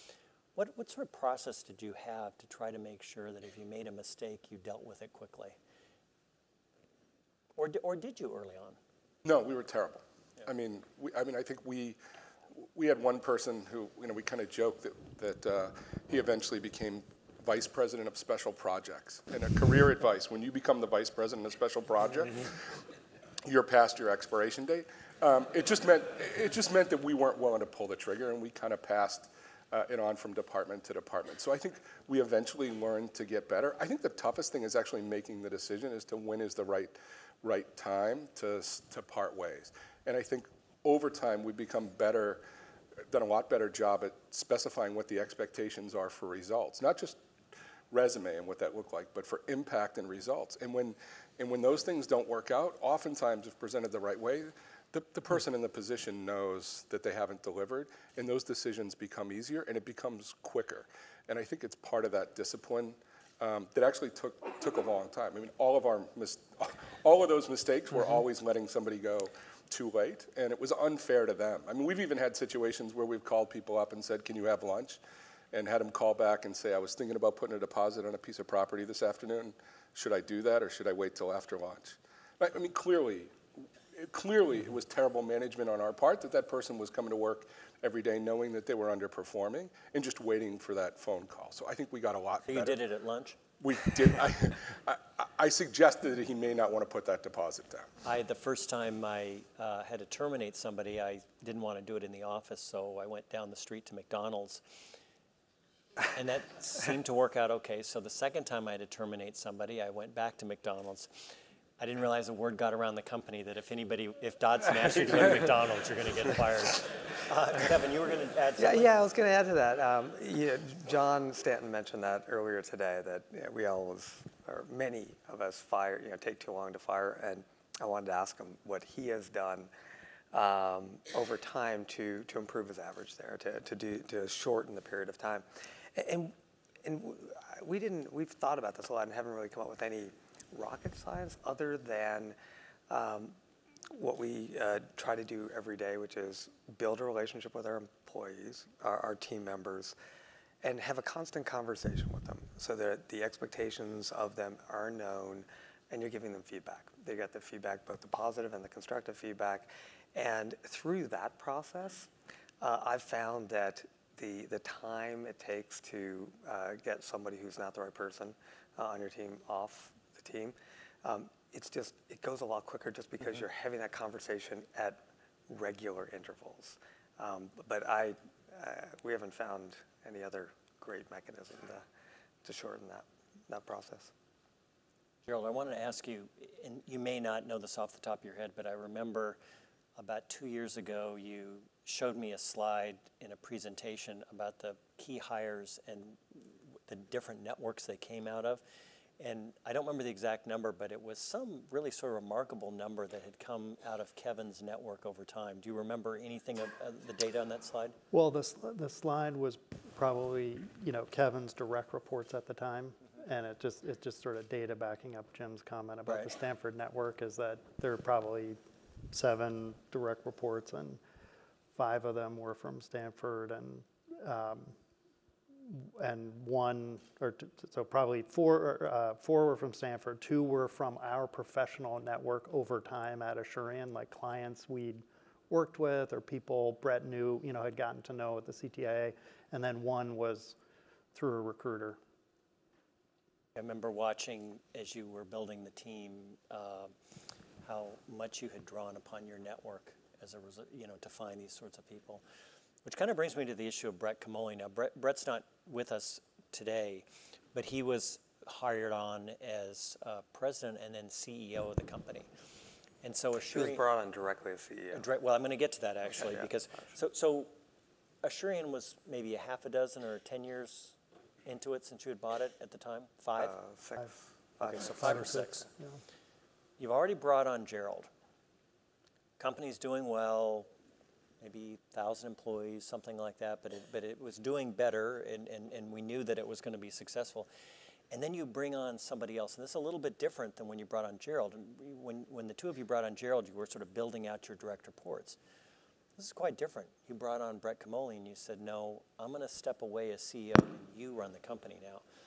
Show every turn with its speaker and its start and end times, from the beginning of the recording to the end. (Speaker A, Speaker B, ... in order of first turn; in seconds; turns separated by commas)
Speaker A: 0.5-5.6, Speaker A: 7.6-8.8, Speaker B: 9.2-12.0, Speaker B: 12.6-22.7, Speaker B: 23.4-42.4, Speaker B: 43.1-47.2, Speaker B: 47.9-75.0, Speaker B: 75.5-83.4, Speaker B: 83.9-92.8, Speaker A: 92.5-93.4, Speaker B: 93.6-97.9, Speaker A: 98.0-104.6, Speaker A: 106.1-118.9, Speaker C: 118.6-129.7, Speaker C: 130.3-142.3, Speaker C: 142.9-143.3, Speaker C: 143.9-149.9, Speaker C: 150.6-162.1, Speaker C: 162.6-181.8, Speaker C: 182.4-184.1, Speaker A: 185.2-189.4, Speaker A: 190.0-198.6, Speaker A: 199.2-207.9, Speaker D: 208.1-218.6, Speaker D: 219.1-221.0, Speaker D: 221.8-224.7, Speaker D: 225.7-240.6, Speaker D: 241.1-242.0, Speaker A: 243.6-246.9, Speaker A: 247.6-252.2, Speaker A: 252.8-262.3, Speaker A: 263.0-263.8, Speaker C: 263.4-265.1, Speaker A: 264.9-267.5, Speaker C: 266.2-266.5, Speaker A: 268.2-273.5, Speaker C: 273.4-275.4, Speaker A: 274.6-275.7, Speaker D: 275.0-276.0, Speaker A: 276.8-278.1, Speaker A: 279.4-280.7, Speaker A: 281.4-287.5, Speaker A: 288.1-295.4, Speaker A: 296.1-302.0